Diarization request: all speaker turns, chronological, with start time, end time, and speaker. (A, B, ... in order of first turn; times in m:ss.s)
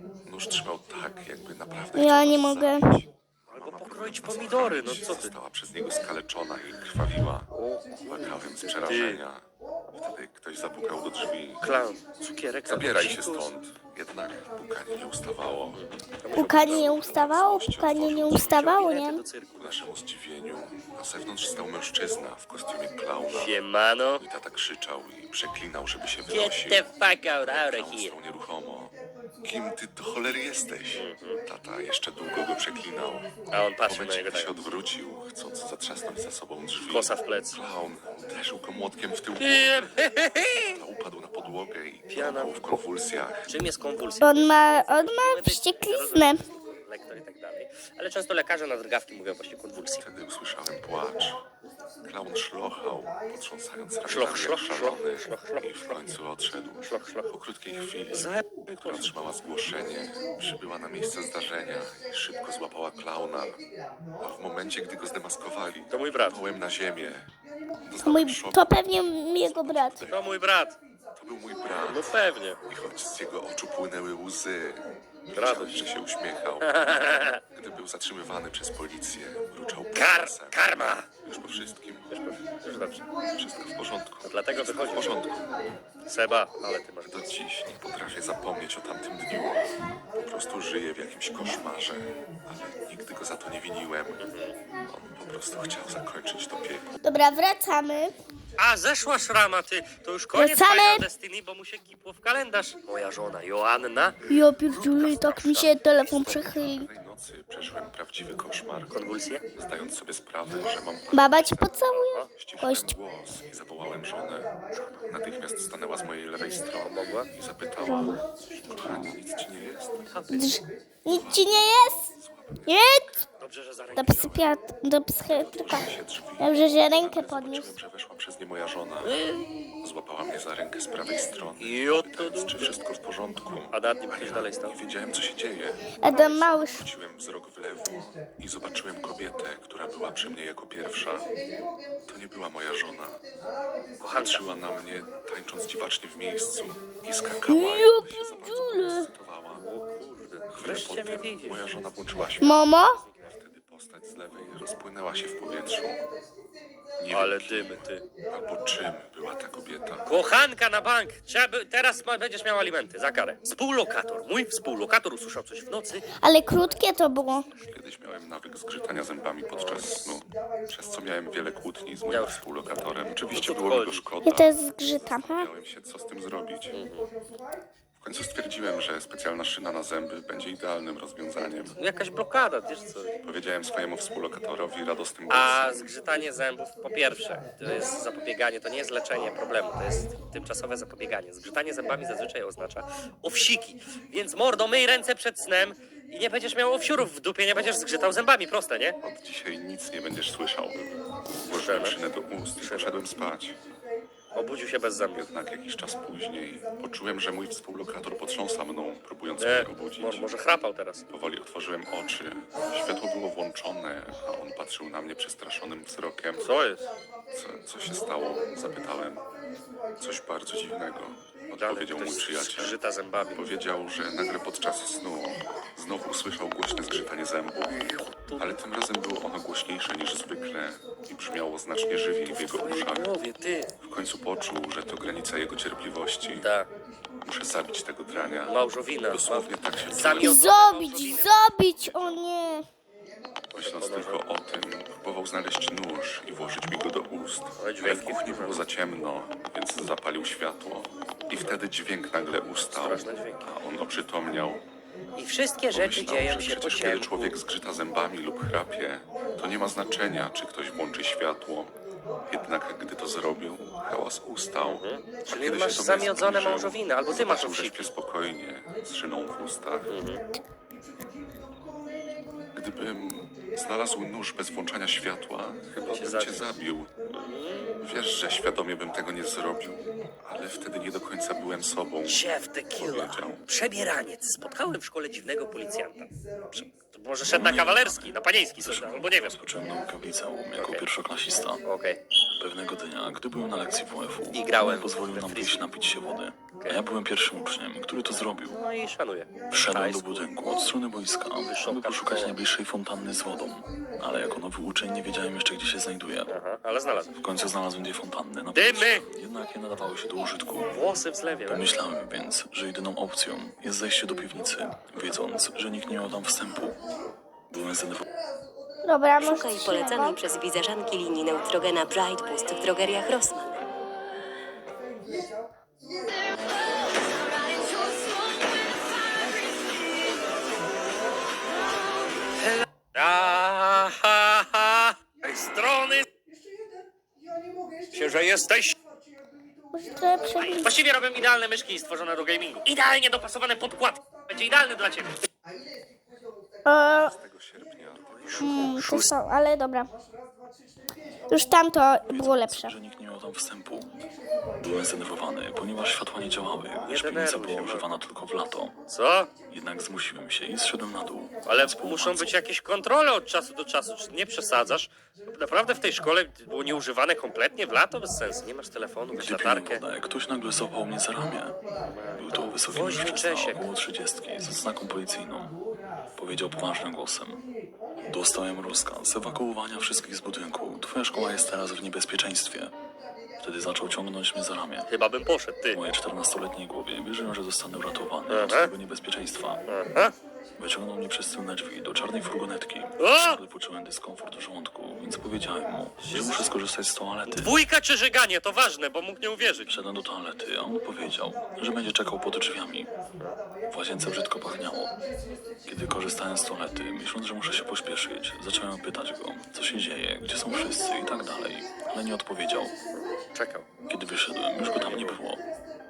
0:00.2-0:07.5 A
0:02.0-0:02.9 B
0:03.5-0:05.3 C
0:07.5-0:08.3 C
0:08.0-0:11.7 A
0:08.8-0:09.2 C
0:11.6-0:13.5 C
0:12.7-0:18.9 A
0:15.7-0:17.0 C
0:16.3-0:19.2 B
0:18.5-0:19.9 C
0:19.5-0:23.6 A
0:23.3-0:24.2 C
0:24.2-0:26.9 A
0:26.3-0:28.2 C
0:27.4-0:43.6 A
0:30.9-0:31.4 C
0:33.5-0:34.6 C
0:36.9-0:37.6 C
0:39.4-0:40.8 C
0:42.1-0:42.8 C
0:43.5-0:50.0 C
0:44.2-0:46.4 B
0:50.0-0:51.4 A
0:52.0-1:03.6 A
0:54.0-0:56.0 C
0:56.8-0:57.3 C
0:58.1-0:59.1 C
1:04.2-1:07.3 A
1:05.9-1:06.4 C
1:07.8-1:10.4 A
1:08.0-1:10.0 B
1:10.1-1:10.8 C
1:11.2-1:22.2 A
1:11.9-1:12.6 C
1:15.3-1:15.9 C
1:16.6-1:17.4 C
1:19.9-1:21.1 C
1:22.1-1:23.0 C
1:23.4-1:25.5 A
1:24.2-1:25.2 C
1:26.1-1:27.3 C
1:27.0-1:37.0 A
1:34.2-1:34.5 C
1:37.0-1:38.1 B
1:38.6-1:45.8 C
1:40.3-1:41.1 B
1:44.3-1:46.9 B
1:46.2-2:00.3 A
1:48.9-1:49.4 C
1:51.1-1:53.0 B
1:51.9-1:52.3 C
1:56.8-1:57.3 C
1:57.8-1:58.2 B
1:58.8-1:59.1 B
2:00.1-2:00.6 C
2:00.3-2:02.1 B
2:01.1-2:03.3 A
2:02.7-2:03.2 B
2:03.4-2:04.1 C
2:03.9-2:04.5 A
2:04.0-2:05.9 B
2:05.3-2:09.2 A
2:06.4-2:07.8 B
2:09.0-2:09.5 C
2:09.8-2:21.3 A
2:11.6-2:12.7 C
2:13.7-2:14.8 C
2:16.0-2:16.9 B
2:22.1-2:23.2 A
2:24.0-2:24.4 C
2:24.1-2:29.7 A
2:27.5-2:29.1 B
2:29.6-2:31.8 C
2:30.5-2:36.0 A
2:32.4-2:33.0 B
2:37.0-2:40.1 A
2:37.1-2:38.0 C
2:40.0-2:46.1 C
2:46.2-2:47.5 B
2:47.5-2:56.8 A
2:49.5-2:50.2 C
2:52.0-2:52.4 C
2:53.3-2:54.1 C
2:54.2-2:55.5 B
2:56.7-2:57.1 C
2:58.0-3:01.8 A
3:01.7-3:03.1 C
3:03.2-3:05.9 A
3:05.3-3:19.0 C
3:19.0-3:23.6 A
3:21.5-3:22.0 C
3:22.6-3:23.1 C
3:24.3-3:25.3 C
3:25.1-3:30.3 A
3:29.4-3:31.0 C
3:31.1-3:36.6 A
3:36.4-3:36.8 C
3:37.3-3:39.2 A
3:40.0-3:42.8 A
3:41.6-3:43.5 C
3:43.3-3:53.2 A
3:47.7-3:48.6 C
3:52.2-3:53.7 C
3:53.8-3:56.5 A
3:56.4-3:56.7 C
3:57.2-4:00.4 A
3:58.4-4:01.4 C
4:00.1-4:02.6 B
4:03.5-4:04.2 C
4:03.5-4:14.6 A
4:07.6-4:08.7 C
4:12.7-4:13.5 C
4:15.2-4:17.4 C
4:15.7-4:21.7 A
4:22.3-4:29.9 A
4:24.6-4:27.9 C
4:29.9-4:30.2 C
4:32.5-4:36.9 A
4:35.9-4:36.5 C
4:37.1-4:37.8 C
4:37.8-4:43.4 A
4:42.0-4:49.4 C
4:47.2-4:51.6 D
4:50.5-4:50.9 C
4:51.6-4:52.0 C
4:52.4-4:58.6 D
4:54.3-4:55.7 C
4:56.6-4:56.8 C
4:58.5-5:00.3 C
4:59.5-5:06.4 D
5:01.4-5:02.4 C
5:06.3-5:07.1 C
5:07.2-5:10.8 D
5:08.5-5:09.0 C
5:10.7-5:11.7 C
5:11.5-5:16.8 D
5:17.5-5:18.0 D
5:18.8-5:20.3 B
5:19.2-5:23.6 E
5:32.9-5:36.0 C
5:37.9-5:38.8 C
5:39.7-5:40.8 B
5:40.4-5:45.2 C
5:46.6-5:47.1 B
5:46.9-5:48.8 A
5:48.1-5:49.1 C
5:48.4-5:49.9 B
5:51.3-5:52.8 B
5:52.1-5:54.0 D
5:54.6-5:58.7 D
5:56.8-5:57.9 C
5:58.9-5:59.3 C
5:59.5-6:02.3 D
6:01.4-6:09.9 C
6:09.1-6:11.6 D
6:11.9-6:13.7 C
6:12.1-6:15.6 D
6:16.2-6:17.4 D
6:18.0-6:22.7 D
6:23.4-6:24.9 D
6:24.9-6:25.8 C
6:25.7-6:29.6 D
6:28.3-6:28.7 C
6:29.7-6:30.1 C
6:30.6-6:37.5 D
6:33.0-6:33.4 C
6:36.0-6:36.6 C
6:37.3-6:39.7 C
6:39.7-6:42.9 D
6:43.7-6:44.9 D
6:45.6-6:52.7 D
6:52.9-6:53.6 C
6:53.9-6:55.4 D
6:54.7-6:55.2 C